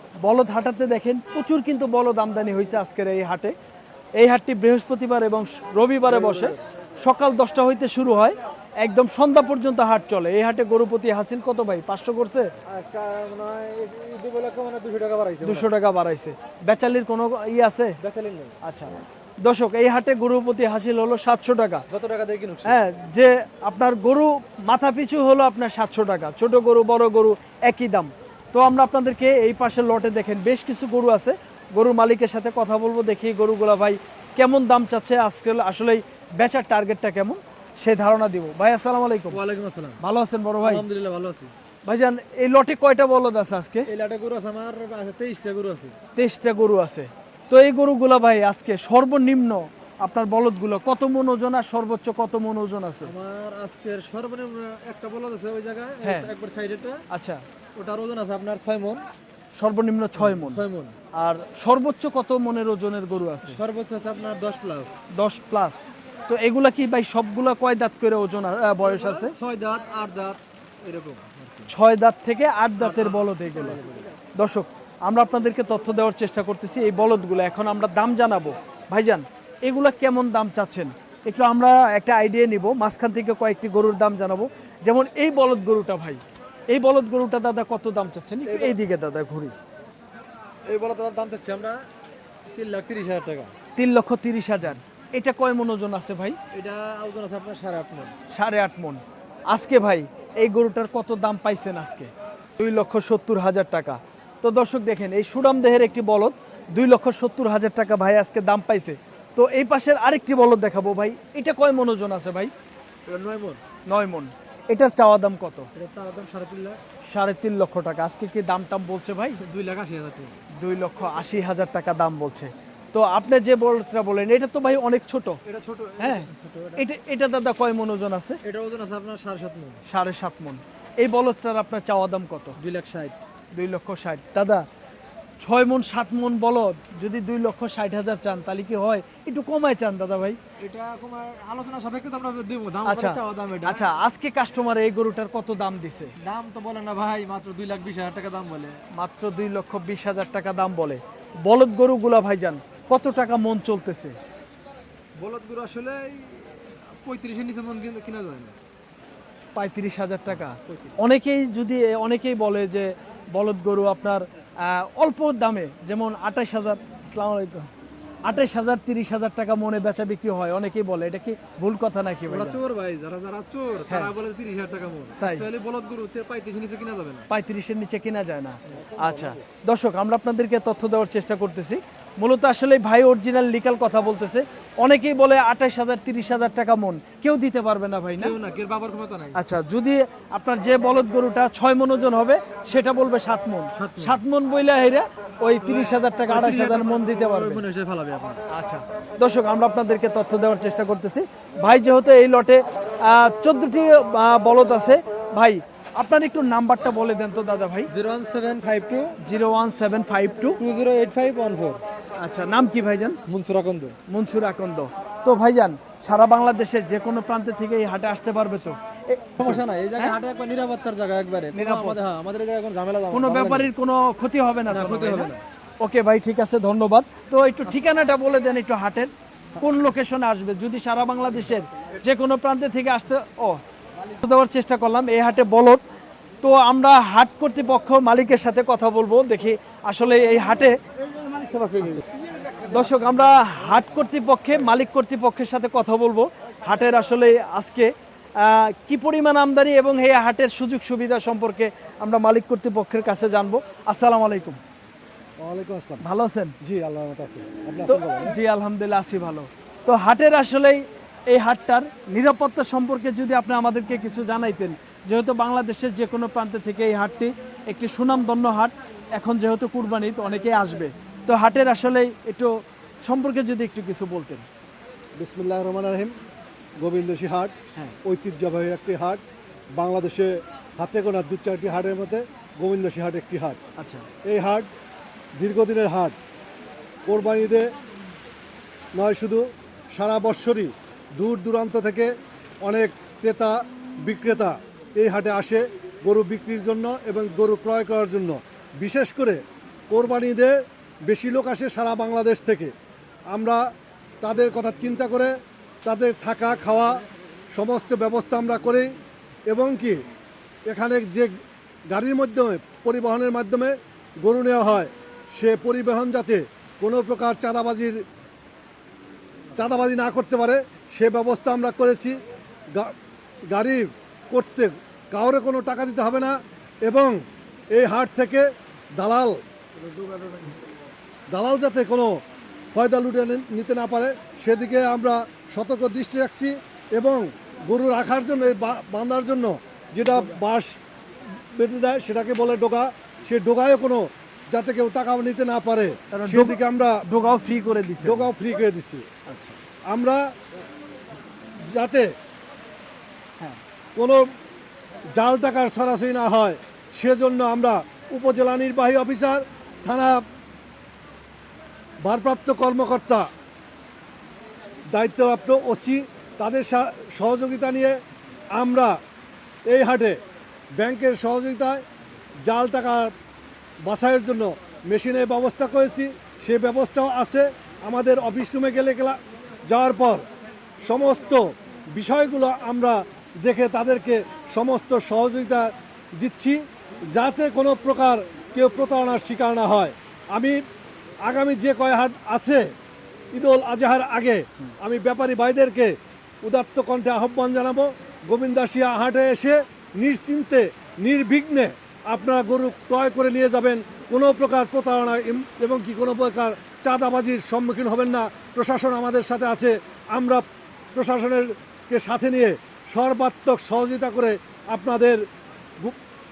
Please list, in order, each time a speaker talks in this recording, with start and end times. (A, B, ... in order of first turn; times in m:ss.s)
0:00.2-0:03.5 A
0:04.2-0:12.5 A
0:06.1-0:06.6 B
0:12.7-0:15.7 B
0:15.4-0:18.0 A
0:18.0-0:18.6 B
0:18.6-0:21.8 A
0:21.9-0:22.8 B
0:22.6-0:39.4 A
0:39.3-0:40.0 B
0:40.0-0:40.8 A
0:40.6-0:41.5 B
0:41.8-0:43.9 A
0:43.9-0:45.9 B
0:46.2-0:53.1 A
0:53.0-0:57.0 B
0:56.0-0:56.3 A
0:57.1-0:57.4 A
0:57.8-0:59.0 B
0:59.6-1:03.6 A
1:00.2-1:00.9 B
1:03.4-1:04.9 B
1:05.1-1:09.3 A
1:08.8-1:11.7 B
1:11.7-1:13.8 A
1:12.8-1:14.1 B
1:14.4-1:29.5 A
1:28.4-1:28.8 B
1:30.7-1:31.8 B
1:32.5-1:33.5 B
1:33.8-1:36.4 A
1:36.5-1:38.1 B
1:38.3-1:52.5 A
1:53.1-1:53.6 B
1:53.9-1:55.7 A
1:55.7-1:56.8 B
1:57.1-1:59.4 A
1:59.4-2:00.4 B
2:00.6-2:05.4 A
2:05.4-2:06.8 B
2:06.0-2:08.4 A
2:08.4-2:09.8 B
2:09.9-2:12.6 A
2:12.6-2:13.1 B
2:13.5-2:14.6 A
2:15.4-2:20.4 A
2:20.6-2:23.9 B
2:22.8-2:26.1 A
2:26.2-2:28.8 B
2:28.9-2:34.2 A
2:35.2-2:38.6 B
2:39.5-2:47.7 A
2:48.2-2:52.6 A
2:52.3-2:57.2 B
2:55.2-2:55.4 A
2:57.3-3:08.3 A
2:59.0-2:59.3 B
3:08.2-3:09.4 B
3:09.3-3:17.6 A
3:13.7-3:14.2 B
3:15.6-3:18.4 B
3:18.5-3:27.9 A
3:27.9-3:29.1 B
3:29.2-3:30.6 A
3:30.6-3:31.8 B
3:32.2-3:33.2 A
3:33.3-3:34.0 B
3:34.1-3:40.1 A
3:39.4-3:43.7 B
3:41.5-3:42.0 A
3:43.1-3:53.6 A
3:44.7-3:45.4 B
3:54.1-3:55.8 A
3:56.4-4:00.7 A
4:01.2-4:02.0 B
4:02.7-4:14.6 A
4:15.4-4:16.0 C
4:16.0-4:16.5 A
4:16.6-4:18.4 C
4:17.8-4:34.4 A
4:35.2-4:36.1 C
4:36.8-4:39.2 C
4:39.8-4:43.6 C
4:43.8-4:44.1 A
4:44.2-4:44.7 C
4:45.4-4:46.1 C
4:47.1-4:47.7 C
4:48.9-4:52.1 C
4:52.6-5:00.6 C
5:01.1-5:02.7 C
5:03.3-5:03.7 C
5:04.2-5:05.3 C
5:05.8-5:07.0 C
5:07.5-5:08.9 C
5:09.5-5:10.0 C
5:10.7-5:18.0 C
5:19.5-5:22.2 C
5:23.5-5:27.2 C
5:27.7-5:29.4 C
5:29.8-5:30.6 B
5:31.3-5:32.2 C
5:32.7-5:40.8 C
5:41.5-5:47.0 C
5:46.1-5:48.3 A
5:48.0-5:49.0 C
5:49.3-5:49.6 A
5:49.9-5:50.2 C
5:51.7-5:52.1 C
5:54.0-5:54.2 C
5:55.1-6:00.2 C
6:02.0-6:03.3 C
6:04.9-6:08.0 C
6:08.6-6:09.0 C
6:09.7-6:10.2 C
6:10.8-6:11.8 C
6:12.4-6:13.1 C
6:13.8-6:20.2 C
6:20.8-6:30.6 C
6:31.2-6:32.7 C
6:33.3-6:50.4 C
6:50.9-6:55.2 C